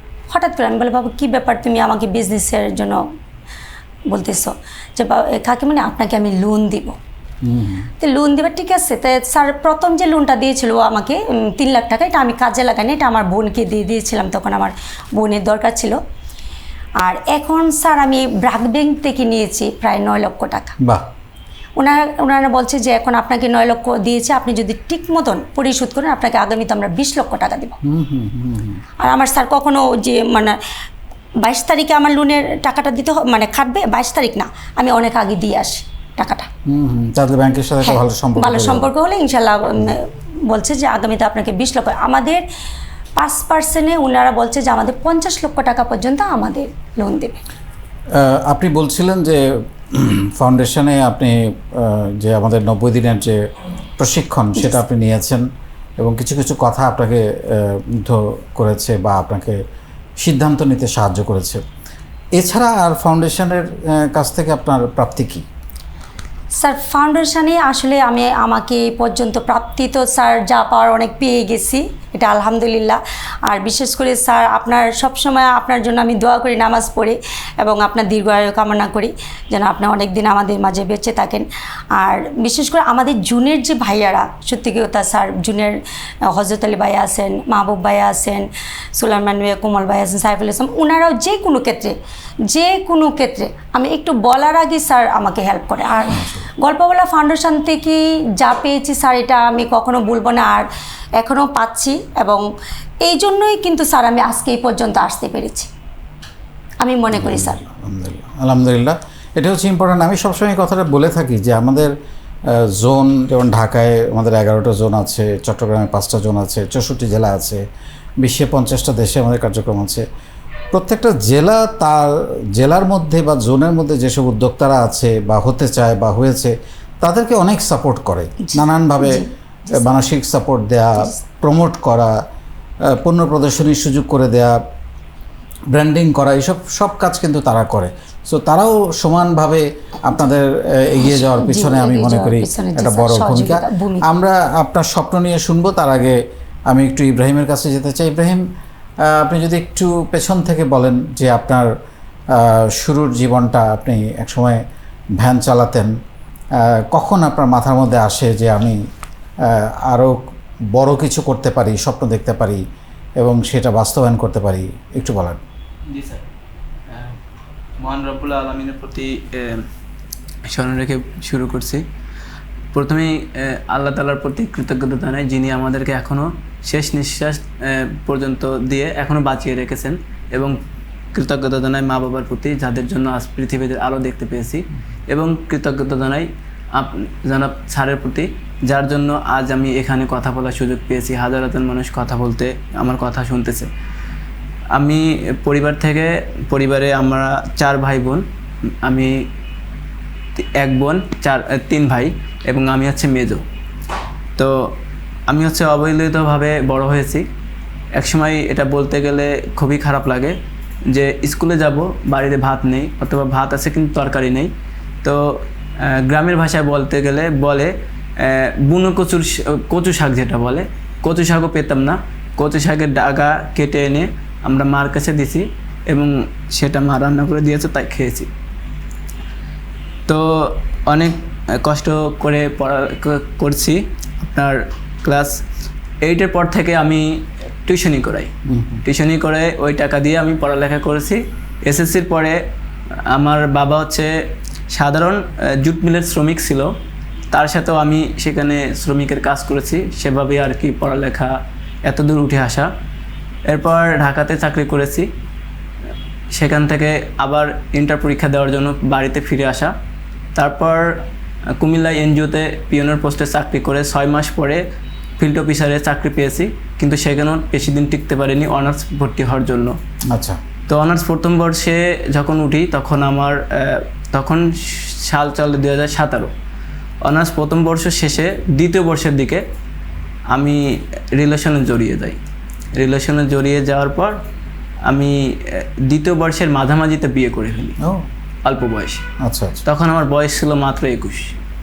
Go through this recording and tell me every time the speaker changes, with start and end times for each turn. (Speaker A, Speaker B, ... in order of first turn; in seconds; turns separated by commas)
Speaker A: 0.3-3.0, Speaker A: 4.1-7.0, Speaker B: 7.4-7.9, Speaker A: 8.0-16.0, Speaker A: 17.0-20.8, Speaker A: 21.8-27.8, Speaker B: 27.8-28.8, Speaker A: 29.0-30.6, Speaker A: 31.4-36.5, Speaker B: 36.6-38.9, Speaker A: 37.8-42.4, Speaker A: 43.1-47.4, Speaker B: 48.1-53.5, Speaker B: 54.0-55.5, Speaker B: 56.0-59.6, Speaker B: 60.2-61.6, Speaker B: 62.4-65.5, Speaker A: 66.5-92.0, Speaker A: 92.5-100.7, Speaker B: 96.1-96.5, Speaker A: 101.2-102.5, Speaker A: 103.0-105.7, Speaker A: 106.8-107.6, Speaker B: 107.1-111.9, Speaker B: 112.5-117.6, Speaker B: 118.2-120.1, Speaker B: 120.7-132.1, Speaker A: 128.4-129.9, Speaker B: 132.8-134.6, Speaker B: 135.7-146.2, Speaker A: 141.1-144.1, Speaker B: 146.7-148.4, Speaker B: 149.0-151.7, Speaker B: 152.3-154.6, Speaker B: 155.2-155.9, Speaker B: 156.6-158.8, Speaker B: 159.4-160.2, Speaker B: 160.7-162.6, Speaker B: 163.2-165.4, Speaker C: 165.9-166.2, Speaker C: 166.9-167.2, Speaker C: 167.8-169.7, Speaker C: 170.5-171.8, Speaker C: 172.7-180.6, Speaker C: 181.1-193.7, Speaker C: 194.7-198.2, Speaker C: 198.8-199.3, Speaker C: 200.4-203.4, Speaker C: 204.4-204.8, Speaker C: 205.3-207.3, Speaker C: 207.9-214.5, Speaker C: 215.0-228.3, Speaker C: 230.1-235.4, Speaker C: 236.0-238.3, Speaker B: 238.5-238.8, Speaker C: 238.8-242.4, Speaker C: 243.0-246.7, Speaker C: 247.3-252.7, Speaker C: 253.5-255.1, Speaker C: 256.3-259.7, Speaker C: 260.4-261.1, Speaker C: 261.6-264.6, Speaker C: 265.2-269.8, Speaker B: 270.1-270.4, Speaker C: 270.7-276.3, Speaker C: 277.0-279.4, Speaker C: 280.3-282.2, Speaker C: 282.8-284.2, Speaker C: 284.9-287.8, Speaker B: 287.8-288.1, Speaker C: 288.4-289.1, Speaker B: 289.2-289.6, Speaker C: 289.6-291.4